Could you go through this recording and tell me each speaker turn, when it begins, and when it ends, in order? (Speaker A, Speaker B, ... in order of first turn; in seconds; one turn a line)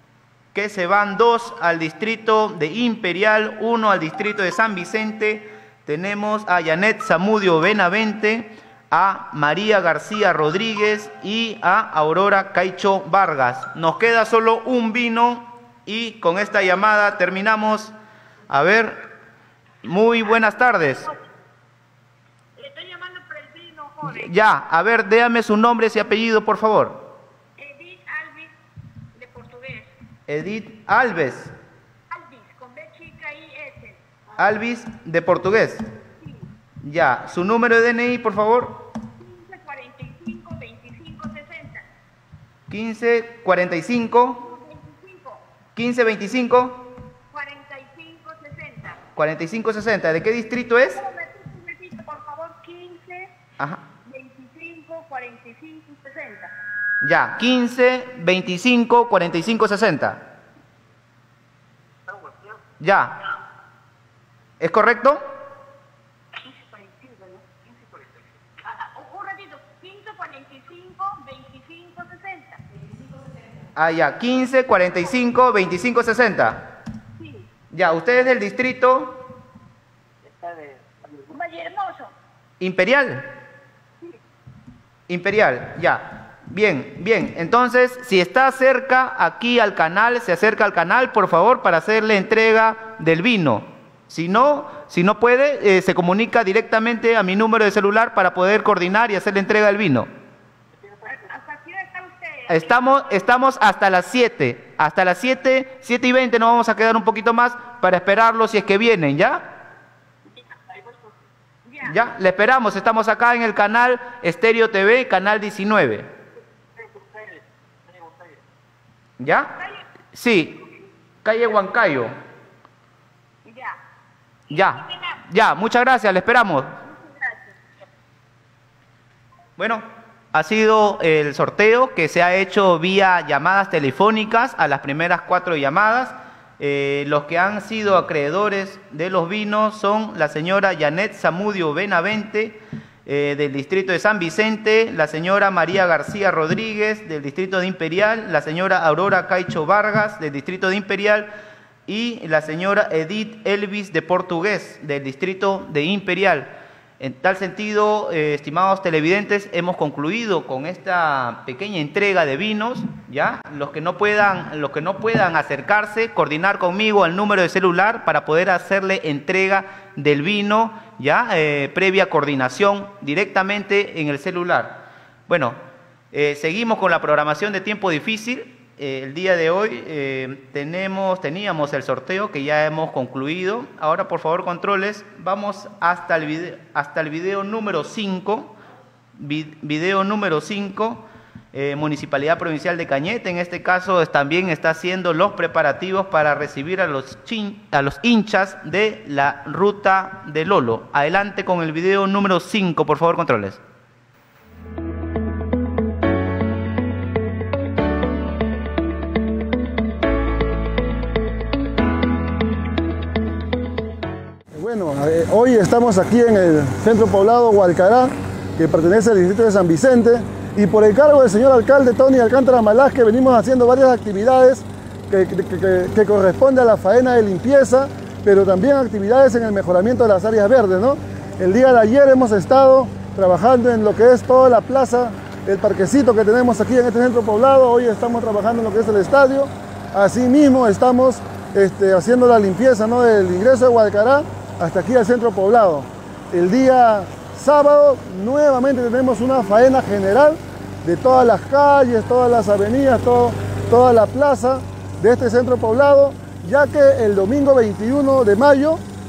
Speaker A: 0.5-17.9
Speaker A: 18.5-19.0
Speaker A: 19.8-21.1
Speaker B: 20.2-21.1
Speaker B: 22.6-24.4
Speaker A: 24.0-27.0
Speaker B: 27.6-28.5
Speaker B: 29.1-29.9
Speaker A: 30.3-31.5
Speaker B: 32.1-34.0
Speaker A: 34.4-35.9
Speaker B: 36.2-36.5
Speaker A: 36.8-38.8
Speaker B: 39.2-41.9
Speaker A: 42.7-44.4
Speaker B: 44.3-45.4
Speaker A: 45.8-46.8
Speaker B: 47.3-49.0
Speaker A: 49.1-51.0
Speaker B: 50.9-53.3
Speaker B: 54.0-56.5
Speaker A: 57.0-60.2
Speaker A: 62.8-63.1
Speaker A: 64.6-65.2
Speaker B: 66.4-72.6
Speaker A: 73.8-76.6
Speaker B: 77.2-77.5
Speaker A: 77.7-79.2
Speaker B: 80.2-82.1
Speaker A: 82.6-83.2
Speaker A: 85.1-100.1
Speaker B: 100.8-103.2
Speaker A: 102.5-109.4
Speaker B: 110.3-111.1
Speaker B: 111.6-112.0
Speaker A: 111.8-116.1
Speaker B: 116.8-117.4
Speaker A: 119.2-119.5
Speaker B: 119.6-119.8
Speaker A: 120.1-120.6
Speaker A: 121.2-122.1
Speaker B: 123.4-123.8
Speaker B: 124.5-125.2
Speaker A: 124.5-126.7
Speaker B: 126.8-127.5
Speaker A: 129.6-151.3
Speaker A: 151.9-175.6
Speaker A: 176.1-188.5
Speaker A: 189.2-203.6
Speaker C: 214.5-258.8